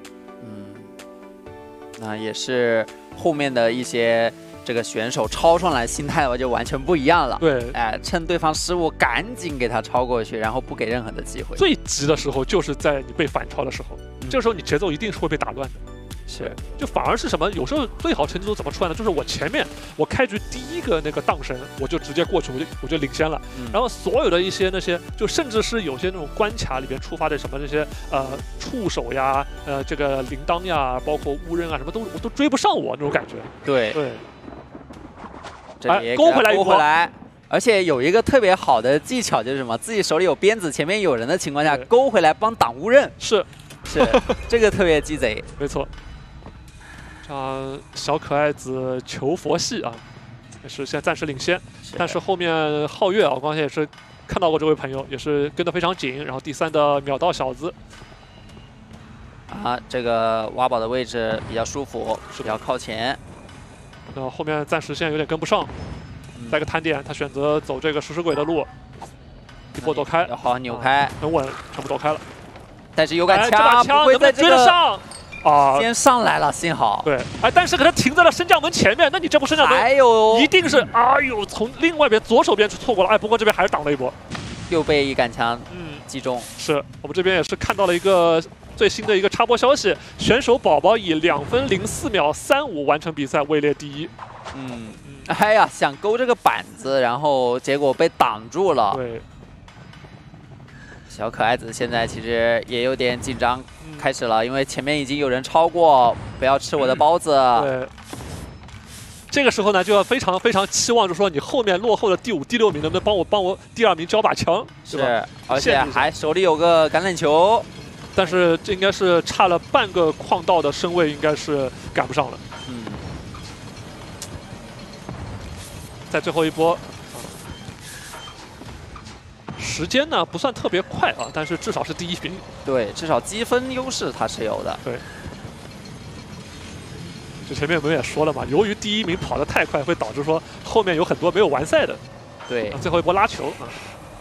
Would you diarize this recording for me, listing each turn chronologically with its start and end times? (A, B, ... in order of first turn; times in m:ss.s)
0:00.4-0:00.9 A
0:02.0-0:11.6 A
0:07.4-0:07.8 B
0:11.6-0:15.8 B
0:16.3-0:16.6 A
0:16.4-0:34.2 B
0:23.5-0:23.8 A
0:33.6-0:34.0 A
0:35.8-0:43.1 A
0:35.9-0:36.8 B
0:43.2-0:44.4 B
0:43.8-0:45.5 A
0:45.6-0:45.9 B
0:47.2-0:50.0 B
0:50.6-0:57.7 B
0:51.8-0:52.2 A
0:59.5-1:03.2 A
1:02.3-1:02.6 B
1:04.1-1:05.7 B
1:06.3-1:06.6 A
1:06.5-1:08.7 B
1:09.7-1:11.1 A
1:09.8-1:12.2 B
1:12.9-1:14.8 A
1:13.3-1:15.9 B
1:15.7-1:17.1 A
1:17.0-1:24.2 B
1:19.5-1:20.5 A
1:24.7-1:26.5 A
1:25.7-1:26.0 B
1:26.6-1:34.1 B
1:34.5-1:39.0 A
1:38.9-1:39.2 B
1:41.1-1:47.7 A
1:43.8-1:44.1 B
1:47.5-1:47.9 B
1:49.3-1:56.0 B
1:54.9-1:57.7 A
1:57.9-2:02.4 B
2:02.6-2:03.0 A
2:06.1-2:07.4 B
2:09.6-2:12.4 B
2:12.6-2:14.8 A
2:17.4-2:22.0 B
2:22.5-2:22.8 A
2:22.7-2:23.9 B